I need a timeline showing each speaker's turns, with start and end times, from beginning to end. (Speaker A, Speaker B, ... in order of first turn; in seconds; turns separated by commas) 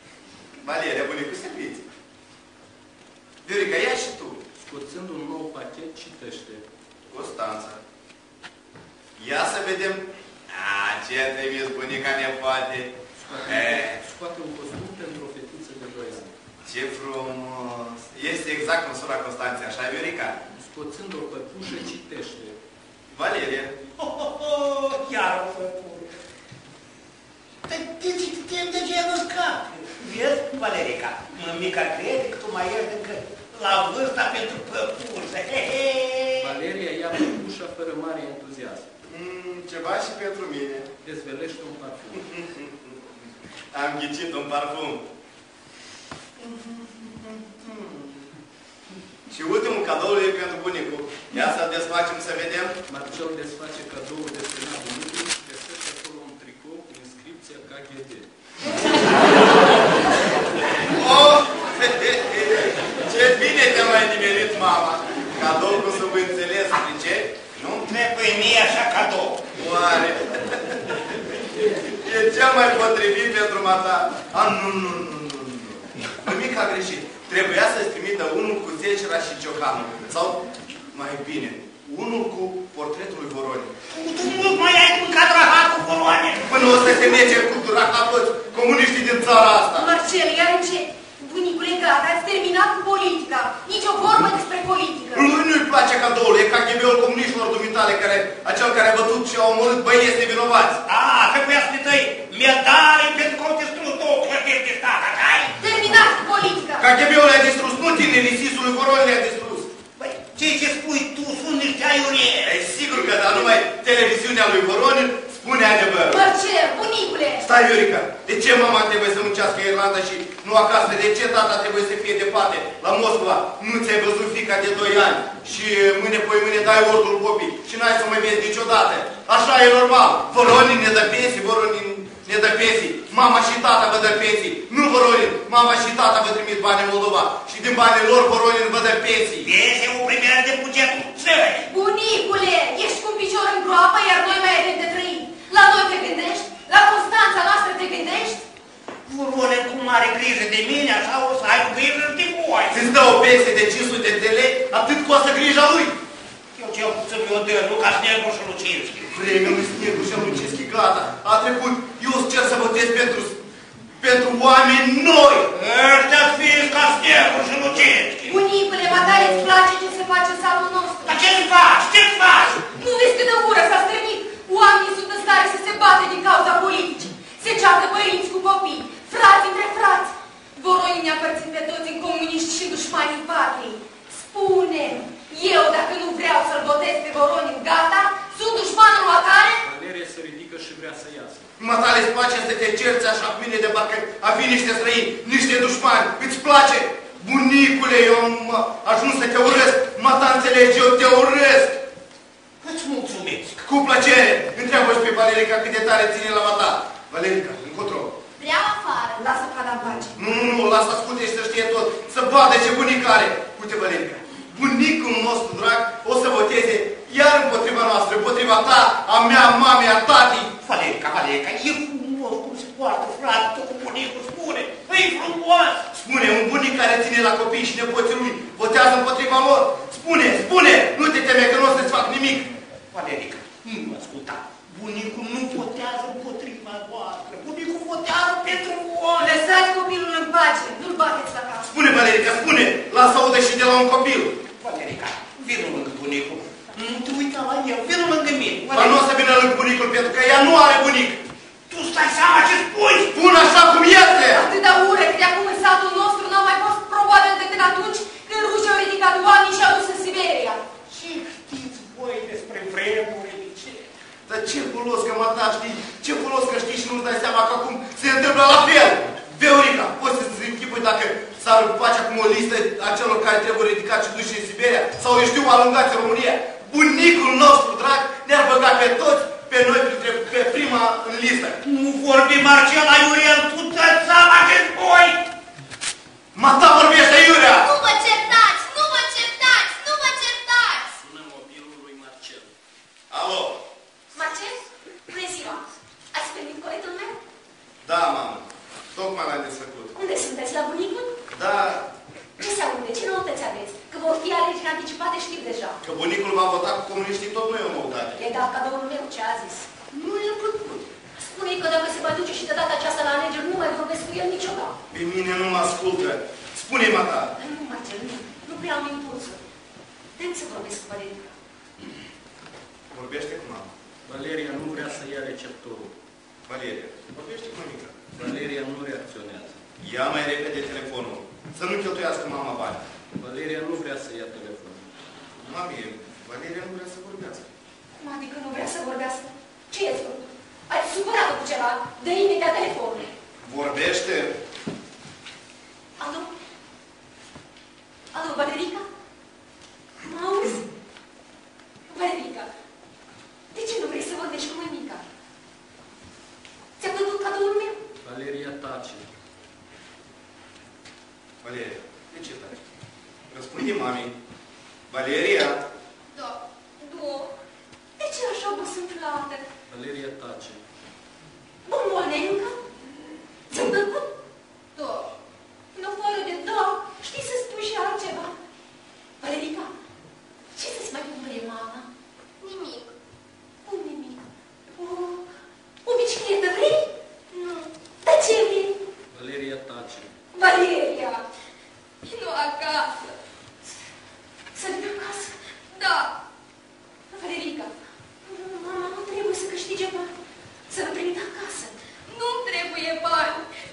Speaker A: 0.6-1.9, Speaker A: 3.4-4.4, Speaker B: 4.6-6.7, Speaker A: 7.1-7.8, Speaker A: 9.2-12.9, Speaker B: 13.2-16.3, Speaker A: 13.5-13.9, Speaker A: 16.6-20.4, Speaker B: 20.6-22.6, Speaker A: 23.1-23.8, Speaker C: 24.0-26.1, Speaker C: 27.7-36.5, Speaker B: 36.4-38.9, Speaker A: 39.1-40.9, Speaker B: 41.0-42.3, Speaker A: 42.1-45.1, Speaker A: 46.4-48.3, Speaker A: 49.3-52.8, Speaker B: 52.9-58.3, Speaker A: 60.9-67.4, Speaker C: 67.5-69.5, Speaker A: 69.6-71.0, Speaker A: 72.0-83.7, Speaker C: 83.9-86.5, Speaker A: 86.5-89.9, Speaker D: 89.8-95.3, Speaker A: 95.1-100.8, Speaker C: 100.8-105.6, Speaker D: 105.6-106.9, Speaker A: 106.8-109.7, Speaker C: 110.0-112.6, Speaker A: 112.4-116.2, Speaker D: 116.1-117.4, Speaker A: 117.4-139.5, Speaker C: 139.4-141.7, Speaker D: 141.7-148.4, Speaker C: 149.1-152.9, Speaker A: 152.7-156.0, Speaker C: 156.6-159.1, Speaker A: 159.1-163.4, Speaker A: 164.0-165.5, Speaker C: 165.5-168.4, Speaker D: 168.3-171.2, Speaker C: 171.1-172.6, Speaker D: 172.7-189.6, Speaker B: 189.6-191.5, Speaker A: 191.6-201.8, Speaker C: 202.6-203.6, Speaker A: 203.6-208.2, Speaker E: 208.4-209.3, Speaker D: 209.2-210.2, Speaker A: 210.2-220.5, Speaker C: 220.6-225.9, Speaker A: 225.9-232.5, Speaker C: 232.9-239.4, Speaker D: 239.2-241.7, Speaker A: 241.7-244.4, Speaker C: 244.6-249.0, Speaker A: 248.7-251.2, Speaker C: 251.7-253.1, Speaker A: 253.1-254.4, Speaker D: 254.1-260.6, Speaker C: 260.9-263.9, Speaker A: 264.3-281.6, Speaker C: 281.6-285.3, Speaker A: 286.3-287.7, Speaker E: 287.6-290.9, Speaker B: 290.9-292.5, Speaker A: 293.1-293.6, Speaker D: 294.1-294.6, Speaker D: 295.1-297.2, Speaker A: 297.8-299.9, Speaker D: 300.0-301.2, Speaker A: 301.3-301.9, Speaker D: 302.4-305.8, Speaker A: 305.8-308.2, Speaker D: 308.2-314.8, Speaker A: 314.9-317.3, Speaker D: 317.4-319.4, Speaker D: 320.1-321.3, Speaker A: 322.9-323.7, Speaker B: 324.1-325.9, Speaker A: 326.5-328.0, Speaker B: 328.2-329.6, Speaker A: 329.8-332.9, Speaker B: 333.2-334.9, Speaker A: 335.4-337.5, Speaker D: 338.0-343.1, Speaker A: 343.4-344.4, Speaker D: 346.0-346.3, Speaker D: 348.1-348.9, Speaker D: 350.0-350.7, Speaker D: 351.9-352.5, Speaker D: 353.5-355.0, Speaker D: 356.8-357.8, Speaker B: 358.0-359.1, Speaker A: 361.4-362.6, Speaker A: 363.3-364.1, Speaker A: 364.9-365.6, Speaker D: 366.8-367.3, Speaker D: 368.0-369.5, Speaker B: 369.7-370.6, Speaker D: 371.7-372.6, Speaker D: 373.5-374.1, Speaker E: 374.8-375.1, Speaker D: 375.8-378.3, Speaker D: 379.2-379.7, Speaker D: 380.6-381.9, Speaker E: 382.4-382.9, Speaker D: 383.6-384.2, Speaker D: 384.8-385.3, Speaker D: 385.9-386.9, Speaker E: 387.3-387.7, Speaker D: 388.0-388.8, Speaker B: 389.1-390.1, Speaker D: 390.4-391.2, Speaker E: 392.1-392.9, Speaker D: 394.5-395.4, Speaker E: 395.8-396.1, Speaker D: 397.1-397.7, Speaker D: 398.2-400.1, Speaker D: 400.7-401.8, Speaker E: 402.1-403.3